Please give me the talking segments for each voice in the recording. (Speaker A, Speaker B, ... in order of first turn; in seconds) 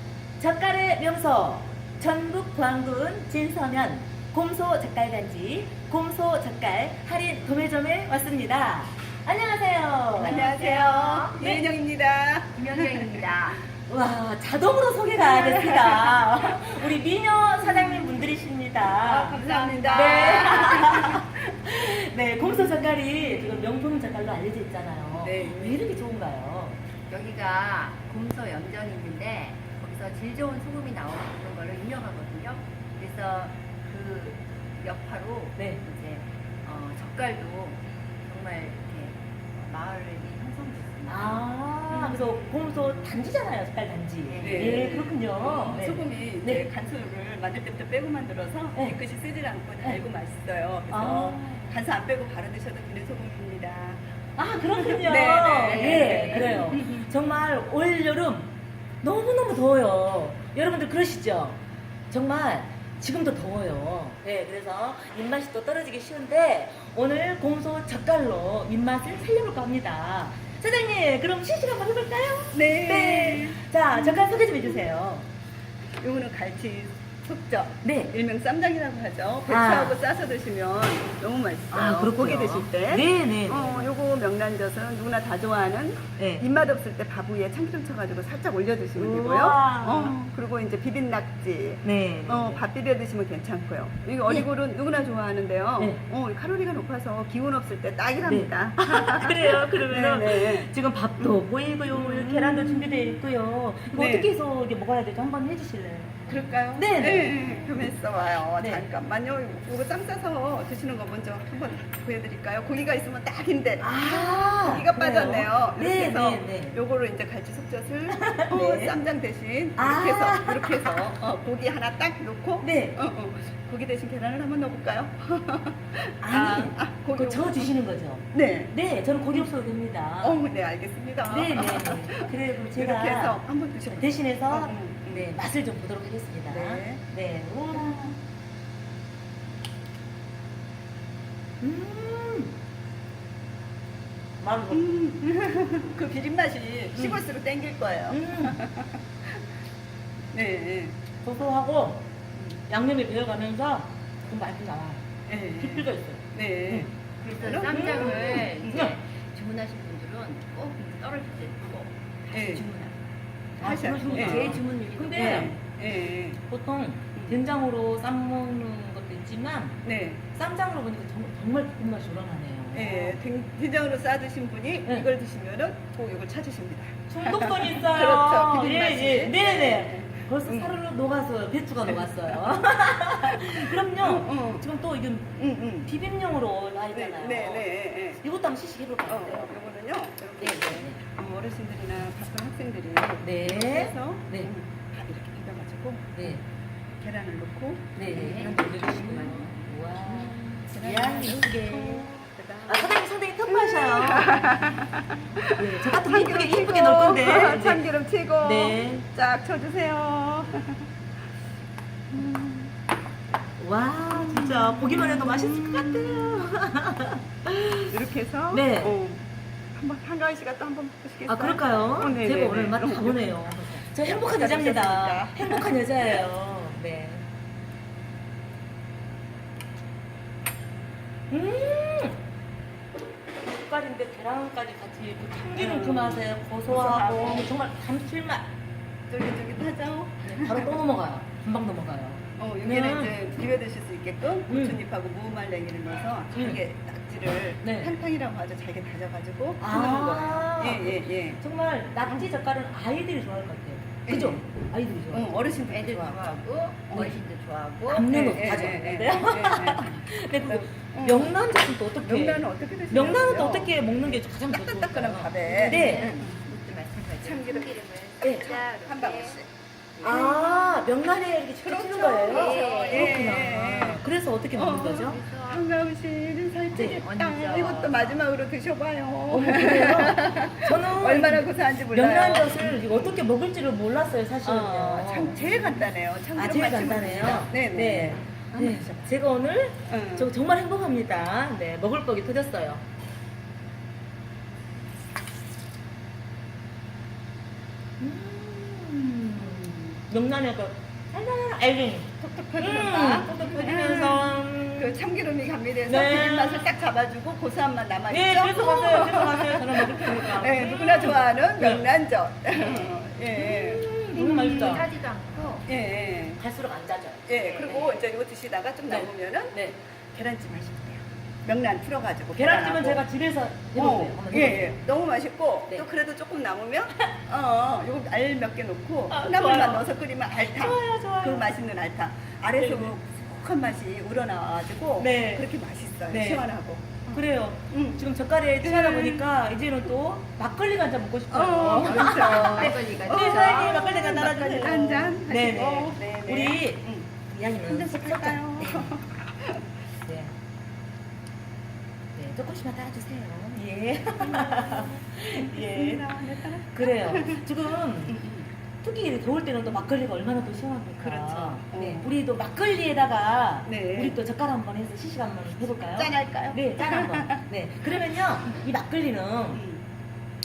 Speaker A: 0.4-10.5, 11.4-11.6, 13.9-26.8, 41.0-46.7, 50.9-51.7, 54.4-58.5, 59.0-75.3, 77.8-78.1, 79.5-80.0, 81.7-83.9, 86.2-86.5, 89.0-90.2, 91.8-92.6, 98.2-107.9, 108.6-108.8, 113.8-116.8, 118.1-119.0, 119.8-120.9, 122.6-123.0, 126.2-130.4, 131.3-133.4, 133.9-138.2, 141.6-142.6, 144.4-145.0, 146.9-147.2, 148.1-148.6, 151.2-152.1, 152.7-156.9, 157.7-158.9, 163.6-165.6, 166.5-169.8, 170.3-173.2, 177.1-187.7, 188.2-189.6, 190.4-191.0, 193.2-194.5, 196.1-196.4, 198.0-202.1, 202.7-204.8, 205.5-207.8, 208.4-209.1, 213.6-217.9, 218.5-218.9, 221.3-227.2, 231.3-232.2, 233.4-238.5, 240.2-243.1, 244.5-244.8, 246.3-246.6, 247.6-247.9, 249.6-255.4, 257.9-266.1, 270.0-275.2, 279.3-285.5, 286.3-292.8, 298.0-304.9, 305.8-306.7, 308.1-311.9, 312.5-314.9, 316.4-317.3, 318.9-319.8, 322.3-324.8, 329.1-331.5, 332.6-332.9, 335.0-335.4, 336.1-336.4, 337.1-349.0, 350.0-350.3, 352.1-356.0, 356.7-358.2, 358.8-369.6
Speaker B: 10.2-13.3, 15.2-16.8, 17.6-18.2, 18.8-21.4, 22.4-22.7, 25.1-25.8, 41.9-42.3, 44.4-54.0, 54.6-57.1, 72.5-74.8, 76.0-101.3, 101.9-103.2, 103.9-104.3, 106.3-127.7, 128.3-128.7, 130.2-135.3, 136.5-137.0, 137.7-138.2, 144.7-149.0, 150.3-150.9, 155.3-158.9, 162.3-162.7, 163.6-164.6, 165.1-166.4, 169.8-170.2, 172.7-180.8, 181.8-182.6, 183.2-184.7, 185.4-185.9, 186.9-188.2, 189.1-196.4, 197.0-198.7, 200.7-210.9, 212.1-212.7, 214.1-216.5, 217.9-226.2, 235.5-237.5, 239.1-240.8, 242.4-251.4, 252.0-252.3, 254.1-254.5, 255.1-256.2, 256.9-257.1, 258.1-261.4, 262.0-266.4, 267.2-269.5, 270.0-270.8, 271.6-274.0, 274.6-283.2, 284.4-289.1, 289.9-290.3, 299.4-299.8, 302.2-314.8, 315.7-316.4, 317.3-323.1, 323.8-338.0, 338.6-339.2, 341.3-347.1, 347.6-349.6, 354.2-357.4, 358.1-358.5, 361.0-362.1, 363.6-364.2, 365.8-367.4, 369.5-369.8
Speaker C: 10.2-11.5, 12.5-13.6, 19.2-21.0, 27.1-41.5, 44.3-45.0, 55.5-56.9, 157.2-163.0, 164.0-165.6, 198.1-200.4, 255.5-258.2, 265.4-269.4, 270.0-270.4, 272.2-273.5, 274.8-275.7, 276.8-278.2, 314.1-315.6, 317.3-318.0, 341.8-343.9